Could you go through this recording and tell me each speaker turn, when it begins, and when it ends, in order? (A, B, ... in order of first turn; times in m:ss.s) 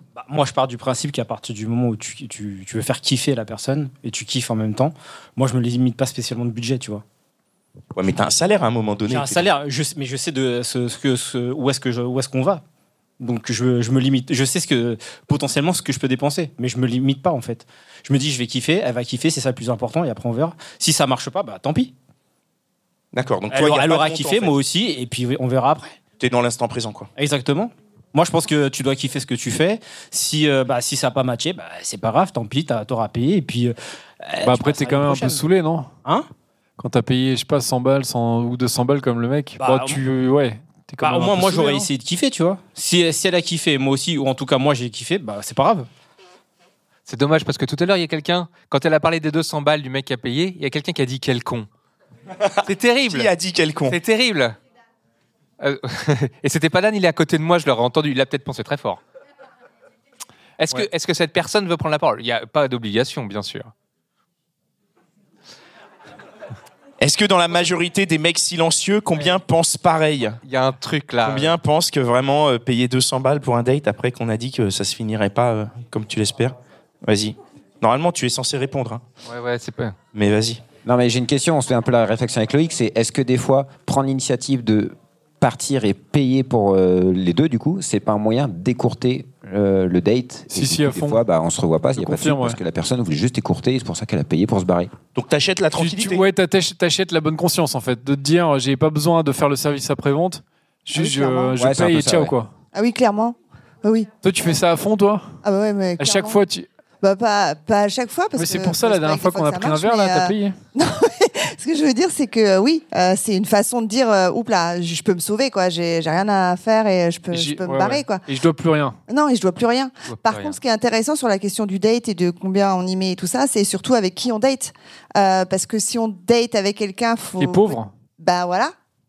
0:00.2-0:07.0 A
0:08.0-0:09.5 B
0:09.1-0:12.6 A
0:13.2-0:21.9 A
0:23.1-0:24.6 B
0:23.5-0:26.0 A
0:26.2-0:27.1 B
0:27.2-0:35.5 A
0:34.4-0:35.9 C
0:36.8-0:41.9 C
0:39.6-0:40.0 A
0:41.0-0:45.9 A
0:47.1-0:51.7 D
0:52.6-0:53.3 D
0:53.0-0:54.0 B
0:53.9-0:54.6 D
0:55.6-0:59.0 D
1:00.6-1:03.7 D
1:07.0-1:10.4 B
1:10.4-1:11.6 D
1:11.2-1:19.0 B
1:19.2-1:20.0 D
1:20.1-1:20.6 B
1:20.8-1:34.9 E
1:30.5-1:31.2 C
1:31.9-1:32.6 C
1:35.2-1:36.3 B
1:35.7-1:42.5 C
1:40.9-1:41.6 F
1:41.6-1:42.4 E
1:42.7-1:44.1 F
1:44.2-1:45.4 C
1:45.4-1:46.4 F
1:46.0-1:46.7 C
1:47.0-1:58.3 F
1:48.4-1:50.6 C
1:57.3-1:59.0 C
1:59.1-2:08.7 F
2:00.1-2:00.6 D
2:07.4-2:07.9 C